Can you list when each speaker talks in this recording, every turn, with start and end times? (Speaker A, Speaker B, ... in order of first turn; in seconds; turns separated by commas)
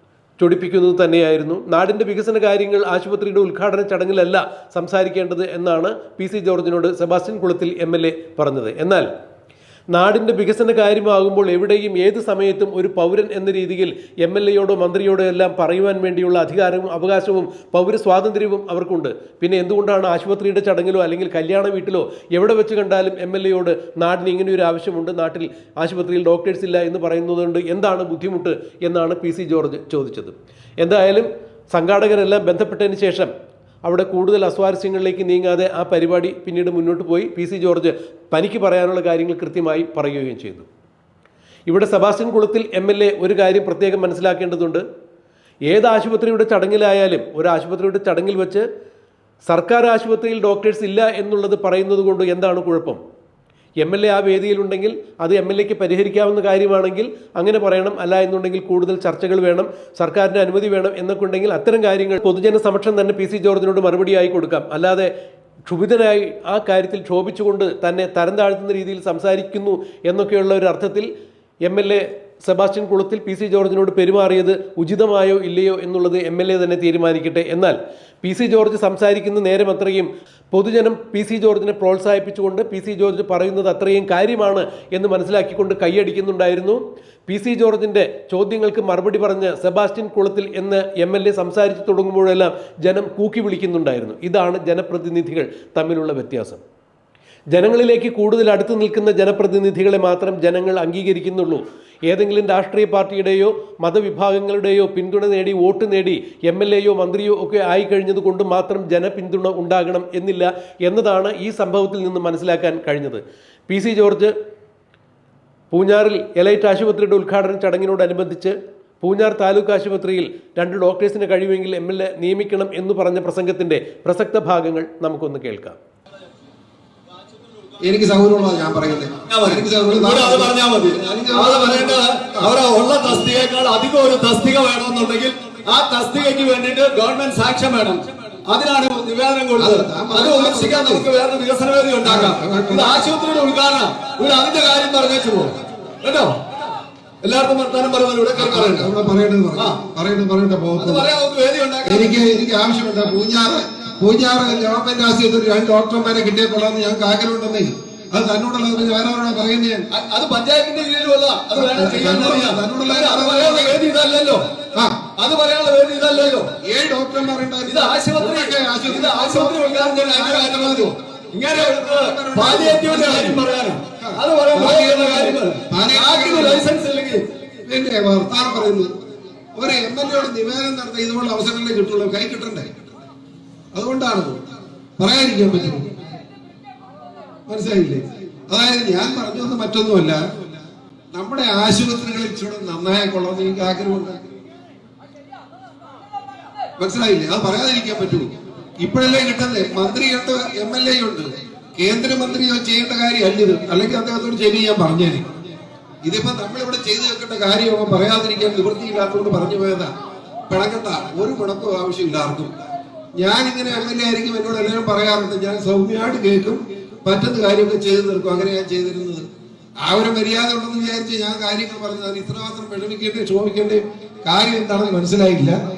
Speaker A: 0.4-9.1, Speaker A: 9.9-33.3, Speaker A: 33.8-40.7, Speaker A: 41.7-44.8, Speaker A: 45.7-48.6, Speaker A: 49.5-53.0, Speaker A: 53.8-65.1, Speaker A: 65.7-71.1, Speaker A: 71.7-96.6, Speaker A: 97.5-114.3, Speaker A: 115.7-125.8, Speaker B: 127.8-132.5, Speaker C: 129.3-146.7, Speaker B: 139.6-141.0, Speaker B: 142.0-143.1, Speaker C: 147.2-148.9, Speaker B: 148.3-151.1, Speaker C: 150.8-152.2, Speaker B: 151.8-159.9, Speaker C: 159.9-164.4, Speaker B: 161.6-163.8, Speaker B: 164.7-165.0, Speaker C: 165.2-166.5, Speaker B: 166.6-170.9, Speaker C: 167.7-177.2, Speaker B: 171.5-173.4, Speaker B: 174.0-176.7, Speaker B: 177.7-178.9, Speaker B: 179.6-182.7, Speaker B: 183.7-184.4, Speaker B: 185.0-185.9, Speaker B: 187.5-190.2, Speaker B: 191.1-194.2, Speaker B: 196.8-205.2, Speaker B: 206.1-209.9, Speaker B: 210.5-212.5, Speaker B: 213.2-219.2, Speaker B: 219.8-225.6